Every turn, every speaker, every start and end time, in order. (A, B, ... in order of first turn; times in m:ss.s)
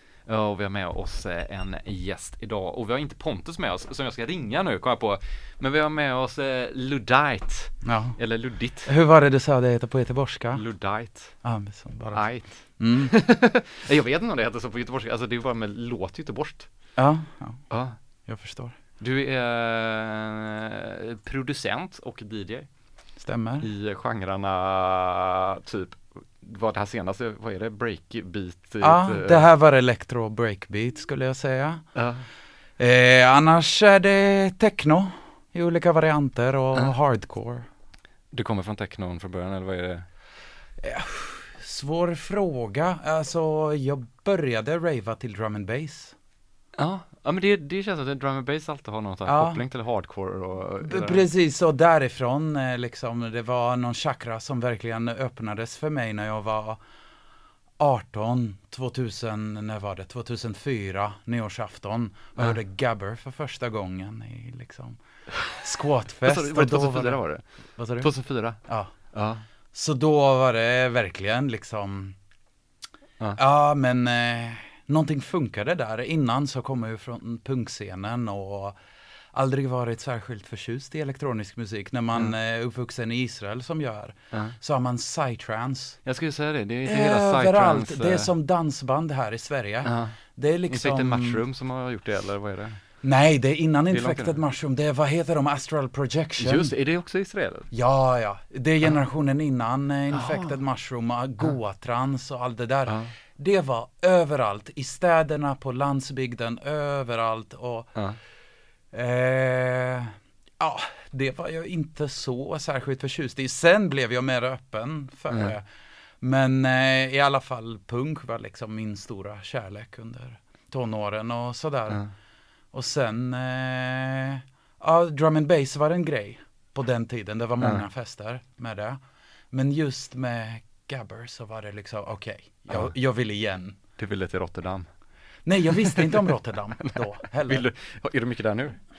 0:00.2-0:08.9 A
0:07.8-0:08.2 B
0:08.8-0:10.6 B
0:10.5-0:11.4 A
0:11.4-0:13.1 B
0:12.1-0:16.7 A
0:17.0-0:17.6 B
0:17.7-0:18.0 A
0:18.3-0:18.8 B
0:19.0-0:22.7 A
0:23.2-0:23.7 B
0:23.6-0:29.5 A
0:28.8-0:31.9 B
0:32.0-0:32.3 A
0:32.8-0:37.7 B
0:38.3-0:40.1 A
0:40.8-0:46.2 B
0:46.8-0:51.3 A
0:49.2-0:49.6 B
0:50.8-0:56.8 B
0:57.8-1:07.2 B
1:06.2-1:09.4 A
1:07.8-1:08.9 B
1:09.7-1:12.2 B
1:13.4-1:18.8 B
1:19.3-1:26.0 B
1:26.0-1:28.3 A
1:26.8-1:31.4 B
1:29.8-1:30.2 A
1:30.7-1:32.8 A
1:33.0-1:36.7 B
1:33.9-1:34.4 A
1:36.4-1:37.7 A
1:37.7-1:47.9 B
1:40.1-1:40.6 A
1:42.9-1:43.1 A
1:48.9-1:55.6 B
1:55.3-1:55.6 A
1:56.2-2:02.0 B
2:02.7-2:09.0 B
2:09.5-2:13.8 B
2:12.7-2:13.0 A
2:14.0-2:14.9 A
2:15.5-2:17.6 B
2:15.7-2:18.8 A